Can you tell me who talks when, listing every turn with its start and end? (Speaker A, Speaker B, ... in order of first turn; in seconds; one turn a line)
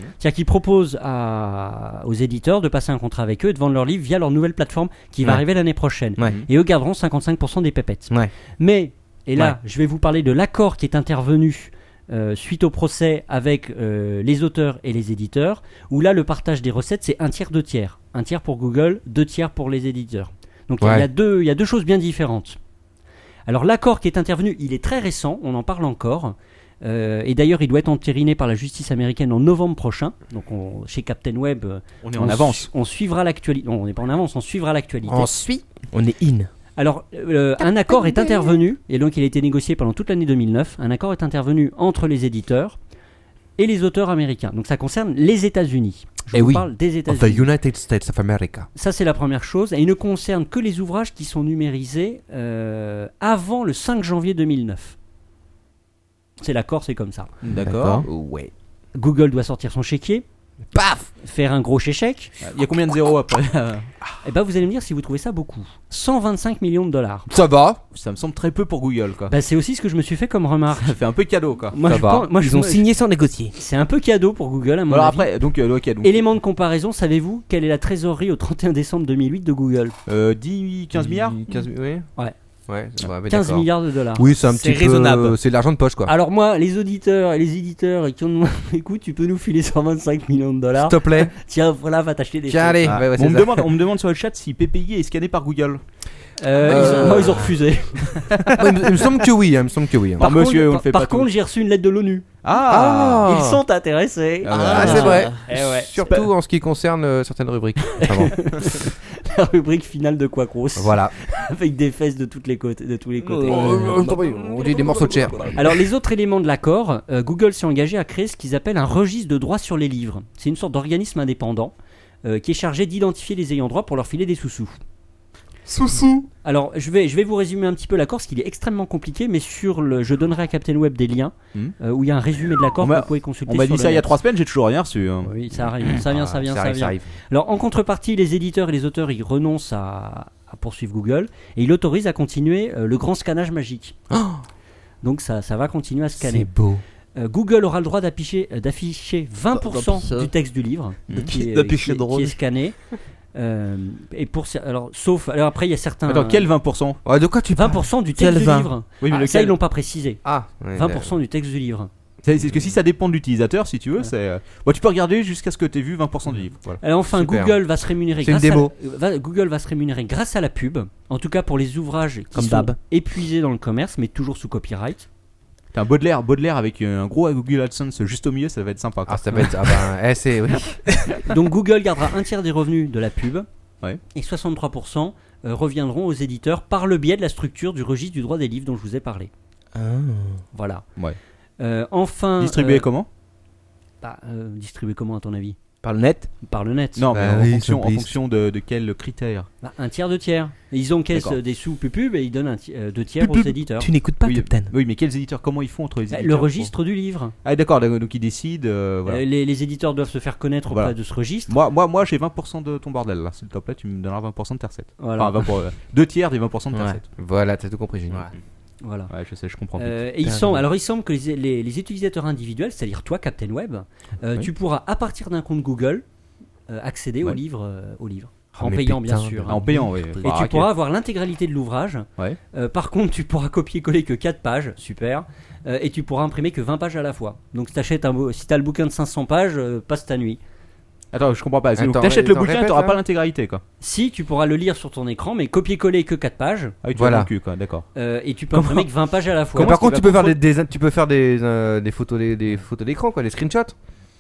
Speaker A: 0.2-22.6
Speaker B: 6.2-6.5
Speaker C: 20.8-21.1
Speaker A: 23.5-35.3
Speaker B: 32.0-32.7
Speaker C: 35.1-35.6
Speaker D: 35.9-36.5
Speaker A: 36.8-42.8
Speaker D: 38.1-38.4
Speaker A: 43.6-47.5
Speaker C: 46.3-48.7
Speaker A: 48.8-55.0
Speaker A: 56.4-57.3
Speaker B: 57.4-58.1
Speaker D: 57.6-58.1
Speaker C: 58.1-58.5
Speaker A: 59.0-60.2
Speaker C: 60.7-61.1
Speaker A: 61.2-62.4
Speaker B: 62.4-63.9
Speaker A: 64.2-67.3
Speaker C: 67.3-67.8
Speaker B: 67.9-69.3
Speaker A: 69.3-71.0
Speaker B: 70.7-71.8
Speaker A: 71.7-72.8
Speaker C: 71.8-72.3
Speaker D: 72.4-73.5
Speaker A: 73.6-75.3
Speaker B: 74.9-76.2
Speaker A: 76.0-80.0
Speaker B: 80.1-81.4
Speaker C: 81.0-82.1
Speaker C: 82.7-86.1
Speaker A: 83.3-84.3
Speaker D: 84.4-85.4
Speaker A: 86.1-93.0
Speaker C: 90.7-91.3
Speaker C: 92.5-93.7
Speaker B: 92.8-95.8
Speaker A: 96.4-98.6
Speaker C: 96.6-97.5
Speaker D: 96.7-97.5
Speaker C: 98.5-100.3
Speaker B: 100.2-101.3
Speaker A: 100.2-102.3
Speaker B: 102.4-103.2
Speaker C: 102.7-103.6
Speaker A: 103.2-106.2
Speaker B: 104.4-105.3
Speaker D: 104.5-105.4
Speaker C: 104.6-108.6
Speaker A: 108.0-114.1
Speaker C: 110.8-111.1
Speaker D: 113.2-115.8
Speaker C: 113.4-115.6
Speaker A: 115.5-124.8
Speaker B: 125.7-126.3
Speaker A: 126.4-134.1
Speaker B: 132.8-135.3
Speaker A: 135.2-143.9
Speaker C: 135.9-137.1
Speaker C: 144.1-144.4
Speaker A: 145.0-146.5
Speaker D: 146.2-146.8
Speaker A: 147.2-152.8
Speaker D: 149.5-150.3
Speaker D: 151.1-152.4
Speaker A: 153.3-156.5
Speaker B: 156.1-157.0
Speaker C: 157.1-157.8
Speaker A: 157.6-160.2
Speaker D: 158.2-158.7
Speaker B: 159.0-159.6
Speaker C: 160.2-161.0
Speaker D: 160.6-161.0
Speaker A: 160.8-161.9
Speaker B: 162.2-166.8
Speaker A: 166.8-175.1
Speaker C: 167.1-167.6
Speaker C: 168.2-168.7
Speaker D: 172.3-172.8
Speaker B: 175.7-179.5
Speaker C: 179.1-180.9
Speaker A: 181.2-183.5
Speaker A: 184.1-189.3
Speaker D: 189.8-190.4
Speaker A: 190.5-190.8
Speaker A: 191.6-192.9
Speaker B: 192.4-193.1
Speaker A: 194.0-195.6
Speaker D: 195.8-196.3
Speaker A: 196.4-197.1
Speaker B: 197.0-199.5
Speaker C: 197.1-198.2
Speaker A: 199.6-203.9
Speaker B: 201.1-201.4
Speaker D: 203.2-204.7
Speaker B: 204.2-206.7
Speaker A: 206.1-207.3
Speaker B: 207.4-209.2
Speaker A: 209.1-211.5
Speaker B: 210.7-210.9
Speaker B: 211.5-217.1
Speaker A: 215.0-215.5
Speaker D: 216.7-217.0
Speaker C: 217.2-218.3
Speaker A: 218.8-219.1
Speaker B: 219.1-220.0
Speaker A: 219.8-226.1
Speaker D: 220.3-220.6
Speaker A: 226.7-229.6
Speaker C: 228.6-230.6
Speaker B: 229.5-230.7
Speaker A: 230.2-240.4
Speaker B: 241.1-243.6
Speaker C: 241.8-243.0
Speaker A: 243.8-246.8
Speaker B: 246.8-247.9
Speaker C: 246.9-247.3
Speaker A: 248.0-249.8
Speaker B: 249.6-250.4
Speaker C: 249.6-253.8